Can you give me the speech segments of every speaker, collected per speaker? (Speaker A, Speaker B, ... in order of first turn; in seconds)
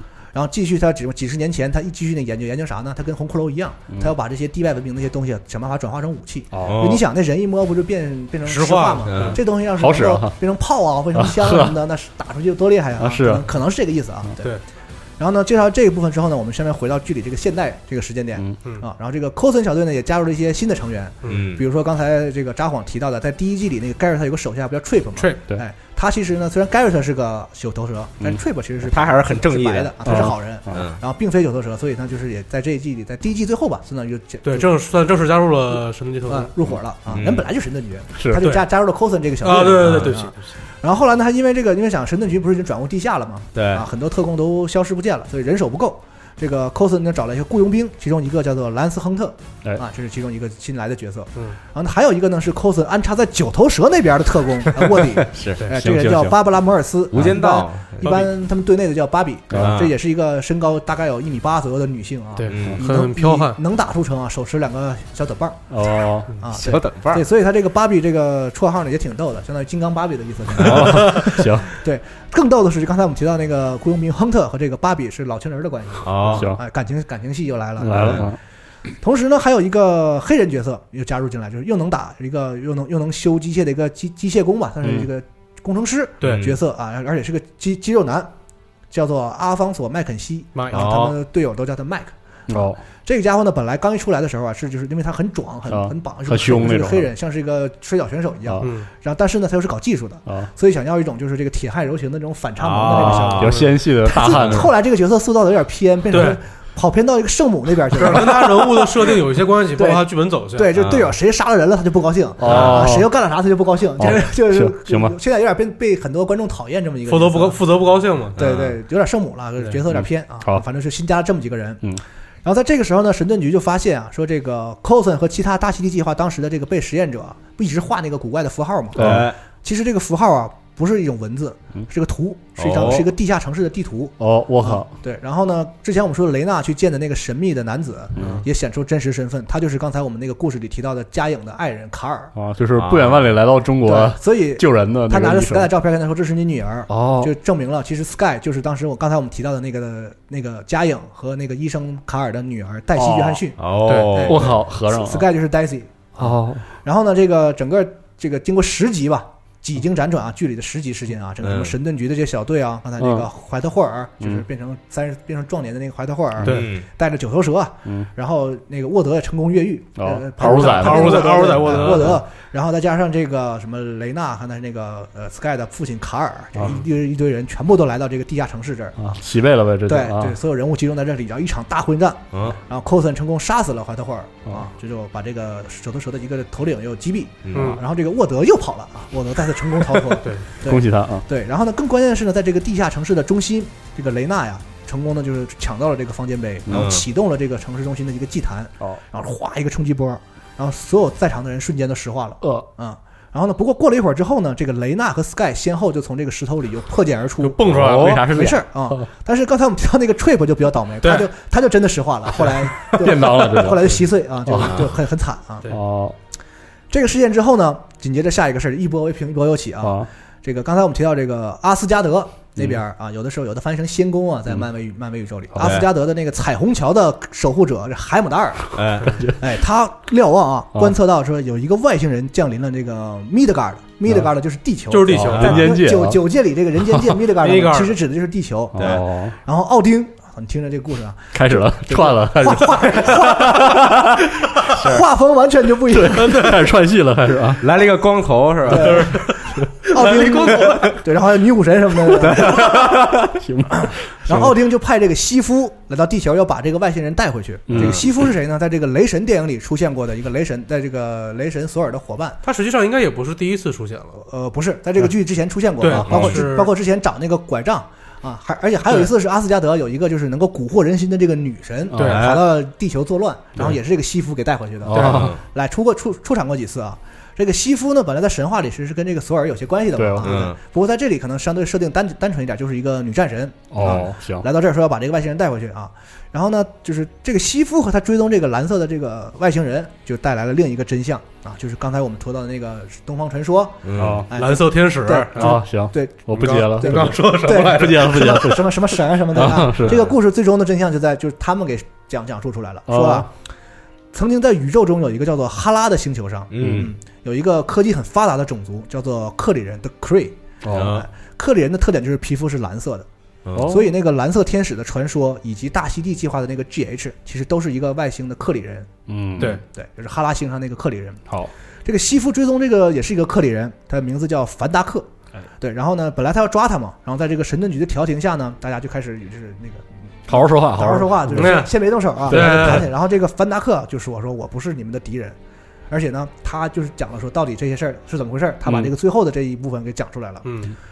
Speaker A: 0.3-14.6, 15.2-34.7, 36.3-65.6, 66.4-78.3, 79.0-88.3, 88.9-109.2, 109.7-117.6, 118.3-121.9, 122.4-142.3, 143.8-153.6, 154.1-179.2, 179.8-215.7, 216.9-228.8, 229.4-244.1, 244.6-246.5, 248.7-252.9, 253.7-262.4, 264.2-303.3, 304.1-313.1, 313.6-321.2, 321.8-325.1, 325.6-335.4, 335.9-340.4
Speaker B: 6.5-7.0, 9.4-10.3, 11.1-11.7, 13.0-13.4, 30.0-30.9, 38.1-38.5, 55.7-56.4, 59.5-59.8, 65.7-66.3, 70.5-71.7, 76.3-76.6, 77.8-78.4, 84.8-85.1, 92.5-92.8, 95.7-97.1, 102.9-104.7, 112.4-113.1, 114.0-115.2, 119.9-120.6, 128.9-129.3, 134.2-134.9, 138.2-138.4, 142.3-145.7, 146.9-147.3, 152.9-153.4, 154.2-155.3, 156.2-156.6, 163.0-163.3, 170.0-172.1, 176.5-176.8, 179.0-180.3, 190.6-191.2, 196.7-196.9, 202.4-202.7, 207.7-209.1, 212.8-214.9, 215.7-216.2, 219.8-220.1, 225.6-225.8, 229.1-229.4, 235.1-236.2, 236.8-237.1, 238.7-239.3, 241.3-244.0, 245.8-247.6, 252.4-254.5, 257.7-258.1, 266.1-266.4, 271.9-272.2, 274.8-275.4, 279.9-280.4, 283.7-284.4, 293.9-294.3, 295.4-300.0, 302.9-303.3, 306.6-306.9, 310.6-311.0, 313.5-313.9, 319.1-319.6, 330.3-331.7, 332.2-332.9, 338.6-338.9
Speaker C: 6.6-7.0, 9.1-9.4, 21.3-21.6, 28.8-31.0, 37.1-37.4, 39.8-40.1, 43.5-43.9, 54.8-55.6, 57.1-58.3, 59.5-59.9, 62.5-62.8, 66.5-67.2, 76.0-76.5, 77.9-78.2, 86.2-86.5, 90.7-91.1, 102.6-103.6, 110.8-111.1, 112.5-112.8, 118.3-118.8, 128.9-129.4, 132.6-133.1, 142.8-143.3, 153.6-154.4, 161.4-161.7, 166.4-166.8, 187.4-187.8, 196.7-197.1, 207.8-208.2, 225.6-225.9, 228.7-229.3, 238.8-239.0, 244.7-245.1, 247.6-249.1, 250.5-250.9, 252.1-253.4, 257.8-258.1, 272.0-272.4, 275.0-275.4, 280.2-280.6, 293.8-294.2, 306.5-306.9, 310.7-311.1, 313.4-313.7
Speaker D: 8.4-9.4, 34.4-36.5, 38.4-38.6, 39.4-40.5, 62.4-63.6, 90.5-90.9, 98.6-98.9, 106.1-106.4, 108.0-110.7, 117.1-118.4, 153.8-154.2, 170.4-172.2, 187.5-187.8, 190.2-190.4, 207.4-208.3, 211.0-211.3, 234.9-235.8, 237.4-238.0, 246.1-246.7, 248.7-251.0, 262.4-264.2, 265.8-266.7, 271.9-272.3, 274.9-275.2, 294.3-295.6, 296.3-298.7, 331.3-332.9, 340.4-340.7